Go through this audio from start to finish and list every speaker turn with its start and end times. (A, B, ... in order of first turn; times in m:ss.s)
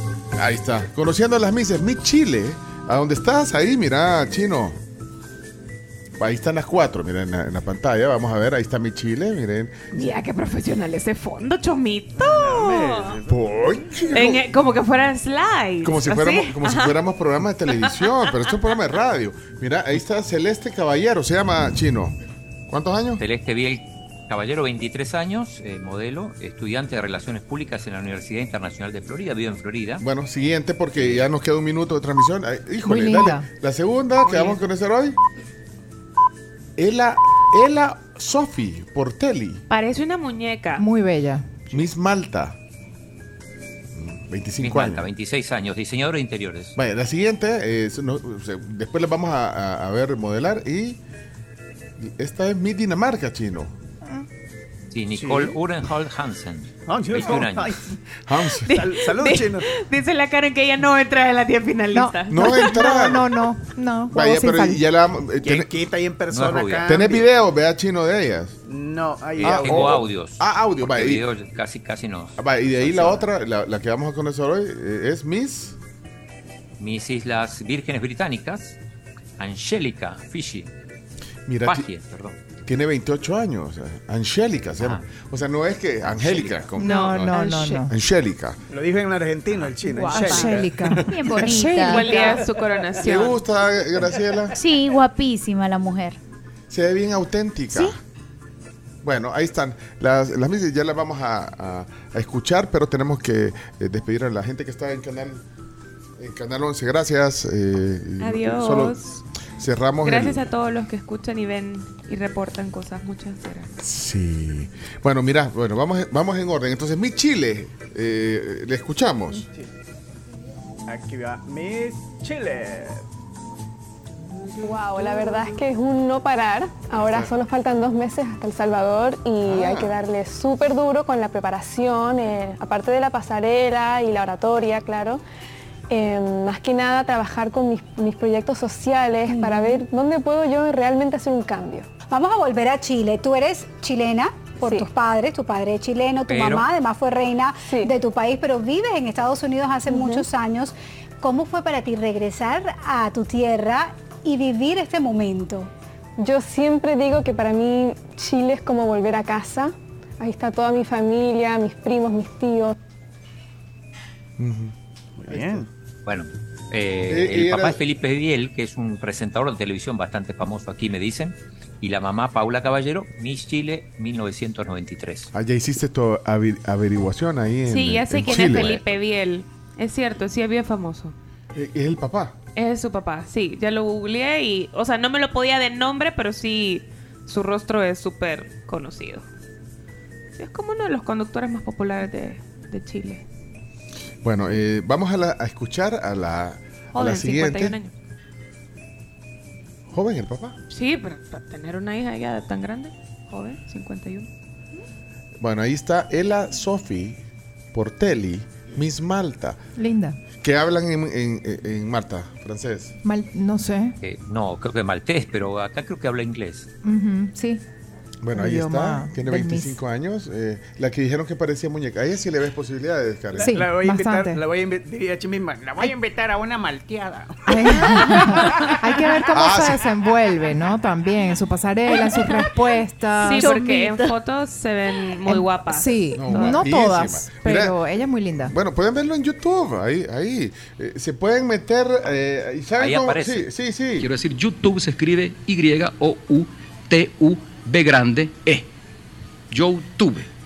0:00.4-0:04.8 A
0:06.2-0:09.8 A
0:09.9-0:13.2 B
0:12.2-0:13.4 C
0:13.3-0:14.4 A
0:14.1-0:17.0 B
0:15.8-0:22.2 A
0:17.8-0:18.1 B
0:22.7-0:23.2 A
0:23.2-0:30.0 D
0:30.0-0:35.2 A
0:31.0-0:31.2 D
0:32.8-0:33.5 E
0:34.2-0:34.6 B
0:36.8-0:39.6 A
0:39.7-0:40.8 B
0:40.8-0:41.5 E
0:41.7-0:42.6 A
0:43.9-0:45.1 A
0:44.6-0:46.7 D
0:46.8-0:51.0 A
0:52.0-0:53.7 A
0:54.9-0:57.9 D
0:55.1-0:55.6 C
0:56.9-0:58.0 C
0:58.2-0:58.7 A
0:58.7-1:03.0 B
0:58.7-0:59.6 C
1:01.9-1:04.8 E
1:02.3-1:03.3 A
1:04.1-1:05.7 A
1:05.4-1:07.3 C
1:06.3-1:06.9 D
1:06.8-1:08.6 A
1:08.7-1:10.0 C
1:09.4-1:13.3 D
1:09.4-1:11.2 A
1:12.4-1:15.8 A
1:16.8-1:18.8 D
1:19.4-1:20.7 D
1:21.5-1:21.9 A
1:21.6-1:22.4 D
1:22.6-1:27.4 A
1:24.8-1:25.0 D
1:26.1-1:26.7 D
1:26.8-1:27.9 E
1:26.8-1:27.9 B
1:27.9-1:28.6 A
1:28.7-1:31.5 C
1:29.5-1:29.8 D
1:29.9-1:32.4 E
1:31.1-1:32.0 F
1:31.8-1:33.4 B
1:32.1-1:33.0 C
1:33.0-1:34.6 A
1:34.6-1:36.2 F
1:36.7-1:38.0 A
1:39.0-1:45.4 A
1:46.2-1:49.0 A
1:48.2-1:49.2 B
1:49.6-1:50.4 A
1:50.0-1:53.7 B
1:53.8-1:59.4 A
2:00.9-2:03.0 C
2:04.6-2:15.2 G
2:07.0-2:07.3 A
2:09.4-2:10.0 A
2:15.9-2:21.9 G
2:19.5-2:19.8 F
2:22.1-2:35.7 H
2:24.6-2:24.9 G
2:26.3-2:26.7 D
2:27.7-2:27.9 G
2:29.9-2:30.2 G
2:36.2-2:42.7 G
2:44.4-2:44.7 A
2:45.2-2:45.7 C
2:45.3-2:45.6 A
2:46.0-2:55.3 D
2:47.0-2:47.8 A
2:55.3-2:58.8 A
2:57.6-3:01.1 B
2:58.3-2:58.8 D
3:01.5-3:02.3 A
3:02.5-3:09.2 B
3:10.4-3:13.2 B
3:14.2-3:17.8 A
3:16.9-3:17.9 B
3:19.9-3:20.6 A
3:20.7-3:24.3 B
3:25.4-3:27.2 A
3:27.7-3:29.6 A
3:29.8-3:30.2 E
3:30.4-3:32.9 A
3:33.0-3:34.0 E
3:34.0-3:36.7 D
3:36.8-3:37.6 E
3:38.2-3:43.6 A
3:38.3-3:39.8 E
3:43.3-3:48.7 C
3:43.4-3:44.4 E
3:47.5-3:53.6 E
3:49.3-3:49.8 A
3:53.2-3:56.6 B
3:53.2-3:54.2 F
3:55.3-3:58.6 E
3:56.1-3:57.8 A
3:58.4-4:04.1 A
4:02.8-4:03.5 D
4:04.0-4:08.7 I
4:09.5-4:10.3 I